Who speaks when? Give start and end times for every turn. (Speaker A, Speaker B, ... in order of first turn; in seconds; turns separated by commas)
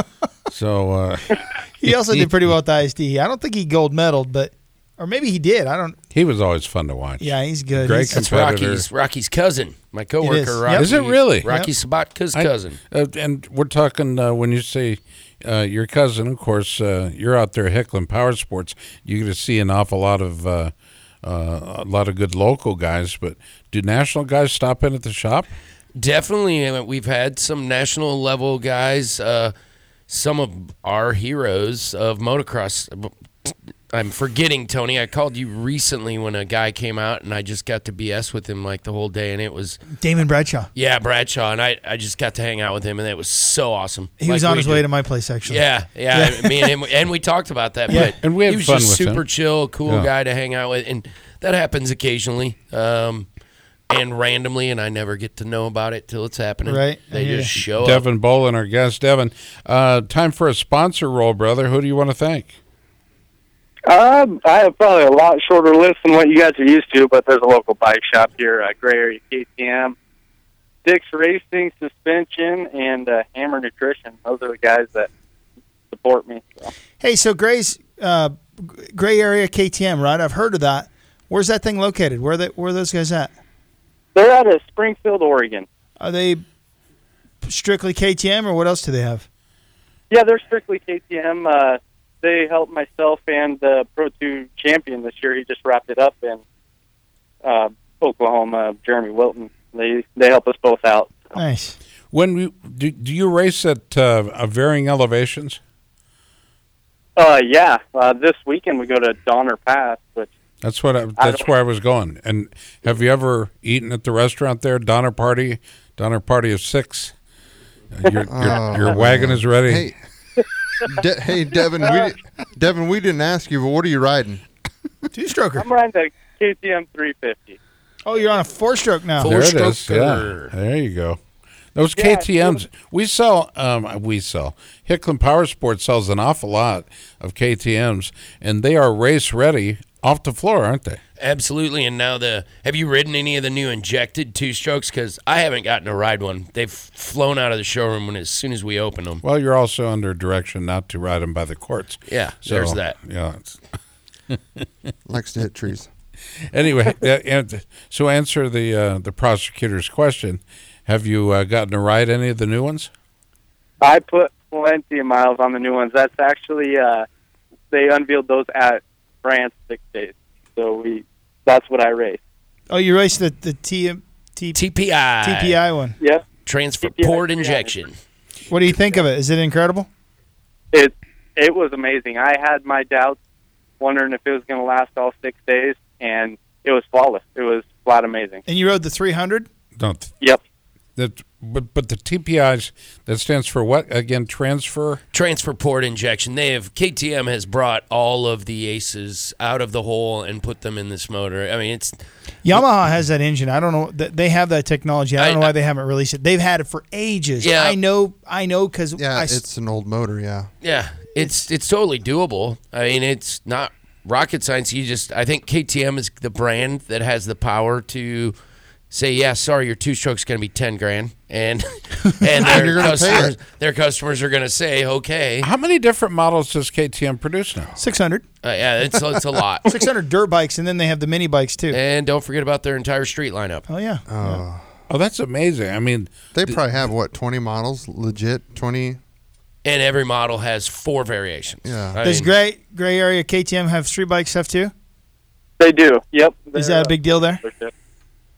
Speaker A: 0.5-2.3, Speaker B: 1.8-6.0, Speaker A: 6.1-8.9, Speaker B: 7.2-8.2, Speaker C: 8.1-12.8, Speaker B: 10.2-11.7, Speaker A: 10.8-11.5, Speaker A: 12.3-25.5, Speaker C: 26.0-29.5, Speaker C: 30.1-39.8, Speaker B: 40.0-40.7, Speaker C: 40.7-44.9, Speaker B: 44.2-46.8, Speaker C: 45.4-53.3, Speaker B: 47.9-48.1, Speaker A: 47.9-49.2, Speaker C: 53.9-58.0, Speaker B: 56.6-57.5, Speaker A: 57.8-62.6, Speaker D: 63.9-70.0, Speaker D: 70.8-75.1, Speaker D: 75.9-76.7, Speaker B: 77.0-83.3, Speaker D: 84.2-85.7, Speaker B: 86.0-86.4, Speaker B: 87.4-89.3, Speaker D: 90.1-96.4, Speaker D: 97.4-101.3, Speaker B: 101.3-101.8, Speaker A: 102.1-105.6, Speaker D: 107.2-110.3, Speaker A: 110.6-117.2, Speaker D: 111.2-111.5, Speaker A: 117.9-119.9, Speaker E: 118.3-120.0, Speaker E: 120.8-124.4, Speaker B: 125.1-125.7, Speaker D: 125.6-127.6, Speaker B: 128.1-129.4, Speaker C: 129.2-130.5, Speaker A: 129.2-131.2, Speaker A: 131.8-141.0, Speaker D: 132.0-132.7, Speaker C: 141.2-149.2, Speaker A: 149.2-153.6, Speaker C: 152.1-153.0, Speaker A: 154.3-154.7, Speaker E: 155.1-155.9, Speaker A: 156.5-162.9, Speaker D: 163.8-167.1, Speaker D: 167.7-172.2, Speaker B: 172.7-174.6, Speaker C: 174.6-175.6, Speaker B: 175.2-176.0, Speaker D: 176.0-176.3, Speaker C: 176.4-177.9, Speaker D: 176.8-177.8, Speaker B: 178.5-179.9, Speaker D: 180.7-183.2, Speaker D: 183.8-188.4, Speaker B: 188.5-189.5, Speaker A: 189.8-190.1, Speaker A: 191.0-195.0, Speaker C: 195.1-202.0, Speaker B: 202.4-209.4, Speaker C: 205.2-205.5, Speaker C: 207.4-207.8, Speaker E: 209.0-210.5, Speaker C: 210.6-218.3, Speaker C: 218.9-225.5, Speaker B: 222.2-222.5, Speaker E: 222.4-223.4, Speaker A: 225.4-227.7, Speaker B: 227.8-228.2, Speaker C: 228.4-229.7, Speaker B: 229.7-231.8, Speaker C: 231.7-233.7, Speaker B: 233.7-234.4, Speaker E: 234.1-234.7, Speaker A: 234.9-236.6, Speaker E: 236.3-239.0, Speaker C: 239.7-242.3, Speaker E: 241.6-242.0, Speaker B: 242.0-244.7, Speaker D: 245.6-247.7, Speaker B: 246.6-247.4